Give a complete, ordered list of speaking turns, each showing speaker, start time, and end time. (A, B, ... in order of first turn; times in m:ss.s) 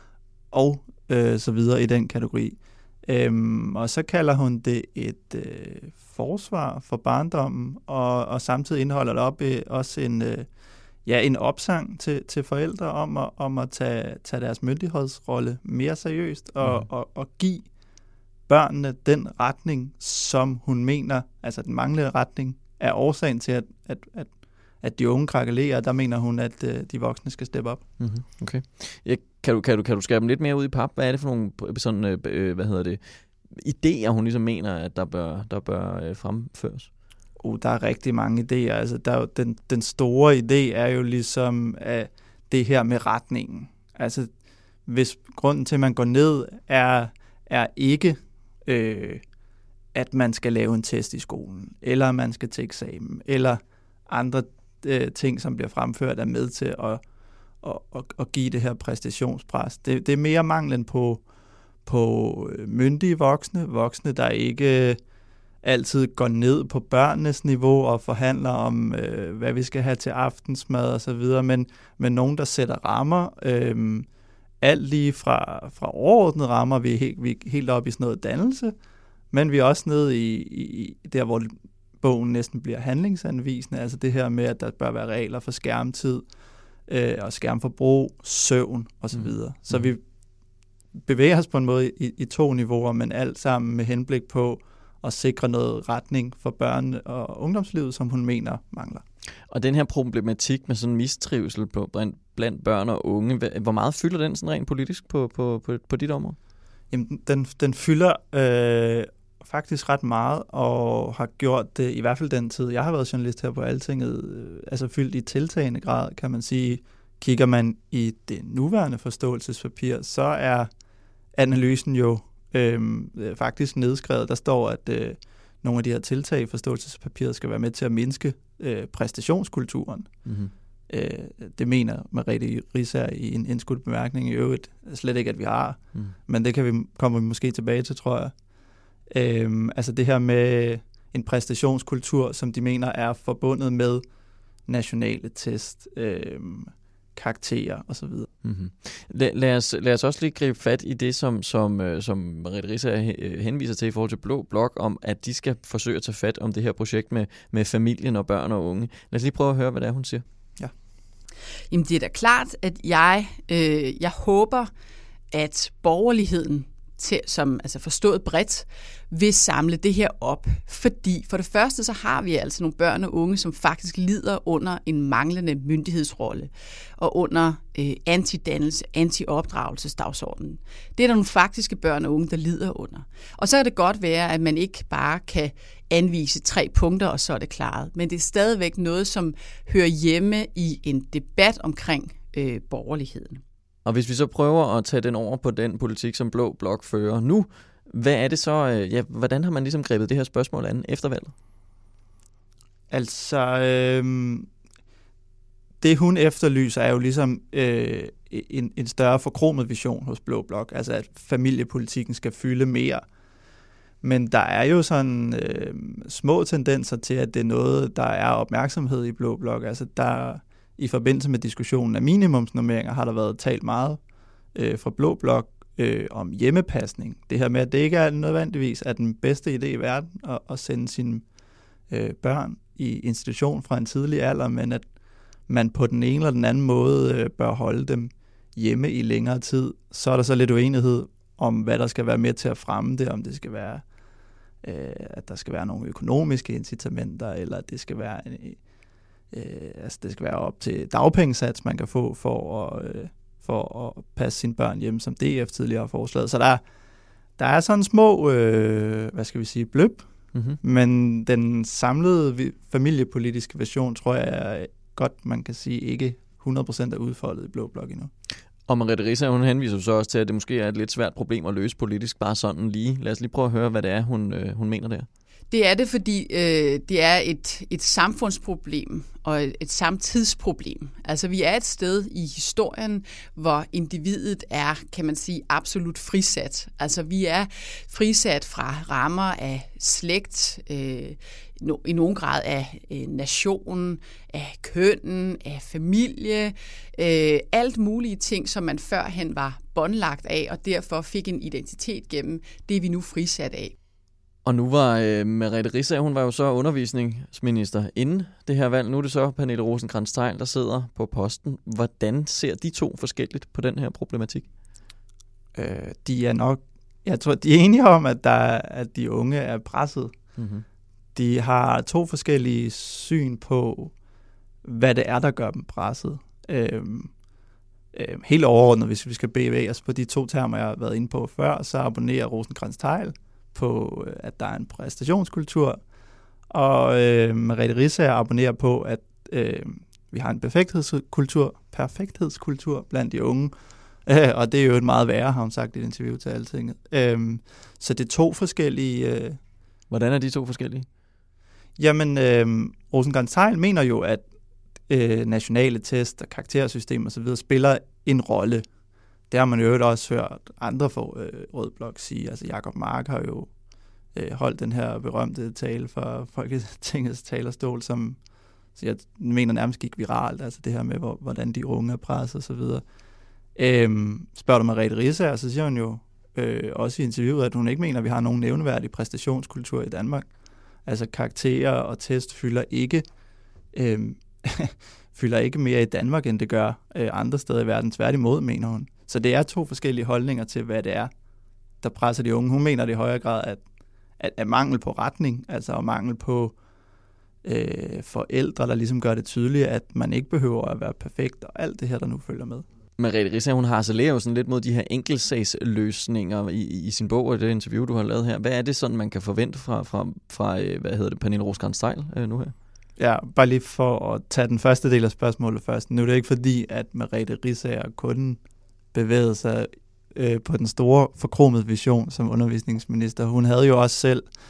0:00.5-0:10.5 A
0:11.0-0:17.6 A
0:16.6-0:16.9 B
0:18.5-0:27.8 A
0:28.0-0:36.9 B
0:37.4-0:44.3 A
0:44.8-0:49.2 A
0:49.9-0:57.0 A
0:57.6-1:01.2 A
1:01.8-1:05.0 A
1:05.6-1:14.1 A
1:14.6-1:18.7 A
1:19.3-1:26.2 A
1:26.9-1:30.0 A
1:29.2-1:29.9 B
1:31.0-1:39.0 A
1:39.5-1:46.4 B
1:46.9-2:00.7 A
2:01.3-2:10.1 A
2:10.2-2:10.5 B
2:10.9-2:18.3 A
2:19.1-2:24.0 A
2:24.6-2:28.3 A
2:28.4-2:40.2 B
2:41.7-2:44.7 C
2:45.3-3:13.4 C
3:13.8-3:21.3 B
3:22.9-3:24.4 A
3:25.8-3:33.0 A
3:34.0-3:44.0 A
3:44.5-3:51.2 A
3:51.9-3:54.8 A
3:55.5-4:03.8 A
4:04.6-4:08.6 A
4:09.3-4:16.6 A
4:17.4-4:20.1 A
4:20.3-4:20.6 B
4:20.6-4:28.1 A
4:28.7-4:35.1 B
4:35.5-5:03.7 C
5:04.4-5:14.4 B
5:15.5-5:20.1 A
5:20.4-5:20.6 B
5:21.1-5:23.9 A
5:24.6-5:27.1 A
5:27.9-5:35.8 A
5:36.5-5:43.5 A
5:44.0-5:49.4 A
5:49.9-5:50.9 B
5:51.8-5:54.2 A
5:54.9-5:58.6 A
5:59.3-6:03.5 A
6:04.1-6:08.2 A
6:08.7-6:12.8 A
6:13.6-6:20.3 A
6:20.8-6:23.0 A
6:23.7-6:31.1 A
6:31.8-6:33.6 A
6:34.2-6:36.5 A
6:37.4-6:42.6 A
6:43.0-6:52.5 B
6:53.0-6:58.4 A
6:58.9-7:04.3 A